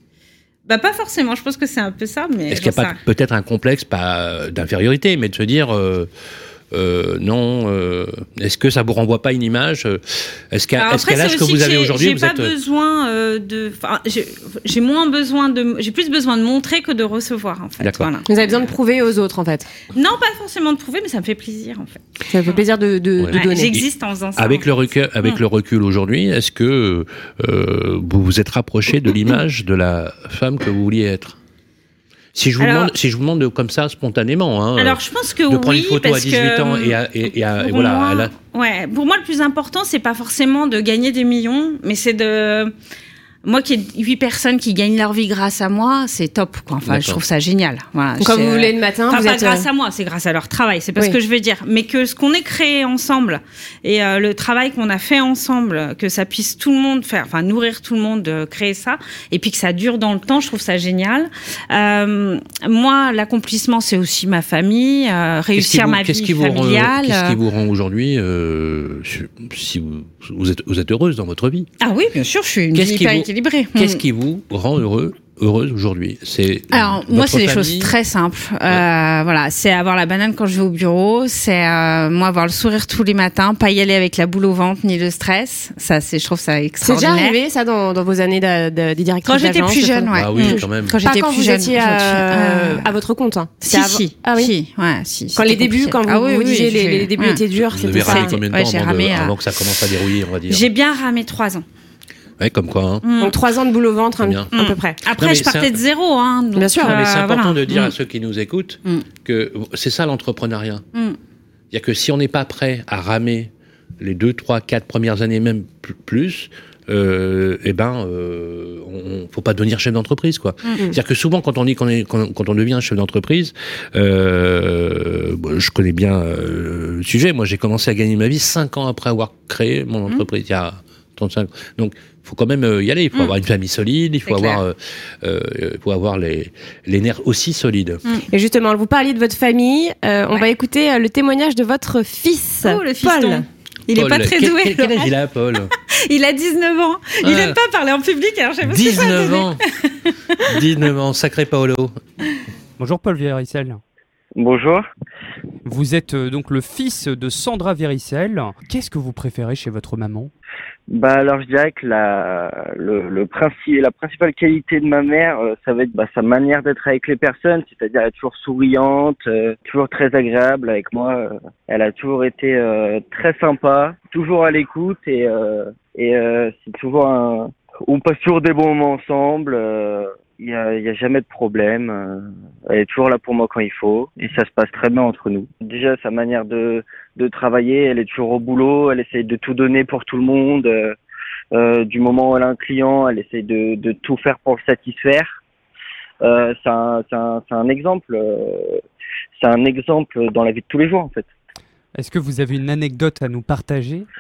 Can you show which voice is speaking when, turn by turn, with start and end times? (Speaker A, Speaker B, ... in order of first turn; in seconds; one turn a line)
Speaker A: 0.7-3.0
Speaker B: 2.5-6.1
Speaker B: 6.7-12.5
Speaker A: 10.8-18.7
Speaker B: 17.8-18.1
Speaker C: 18.3-19.7
Speaker A: 19.9-22.0
Speaker C: 22.3-23.8
Speaker B: 23.2-23.8
Speaker A: 23.3-24.7
Speaker B: 24.4-31.4
Speaker B: 32.4-38.3
Speaker A: 32.6-32.9
Speaker A: 34.8-37.0
Speaker A: 37.6-42.7
Speaker A: 43.4-67.4
Speaker B: 46.9-47.2
Speaker C: 48.2-49.7
Speaker B: 65.6-71.7
Speaker A: 71.8-74.0
Speaker B: 72.7-77.9
Speaker A: 76.7-87.4
Speaker C: 86.8-94.5
Speaker A: 89.3-92.9
Speaker B: 90.1-91.0
Speaker A: 93.6-97.4
Speaker C: 95.3-98.3
Speaker B: 97.6-100.7
Speaker A: 97.9-99.3
Speaker A: 100.5-101.7
Speaker B: 102.4-103.0
Speaker A: 103.0-103.3
Speaker C: 103.2-105.0
Speaker B: 104.2-104.5
Speaker A: 104.5-107.9
Speaker B: 105.1-105.8
Speaker C: 106.6-107.0
Speaker B: 106.8-110.8
Speaker B: 111.7-138.0
Speaker A: 134.3-134.6
Speaker C: 138.3-143.4
Speaker A: 142.6-145.1
Speaker B: 143.9-145.7
Speaker A: 145.9-150.5
Speaker B: 147.2-147.6
Speaker B: 148.7-149.6
Speaker B: 150.5-152.0
Speaker D: 152.8-153.8
Speaker E: 154.3-154.9
Speaker D: 155.7-160.3
Speaker E: 160.9-191.0
Speaker E: 191.5-195.4
Speaker E: 196.2-198.8
Speaker E: 199.4-201.3
Speaker D: 201.9-204.1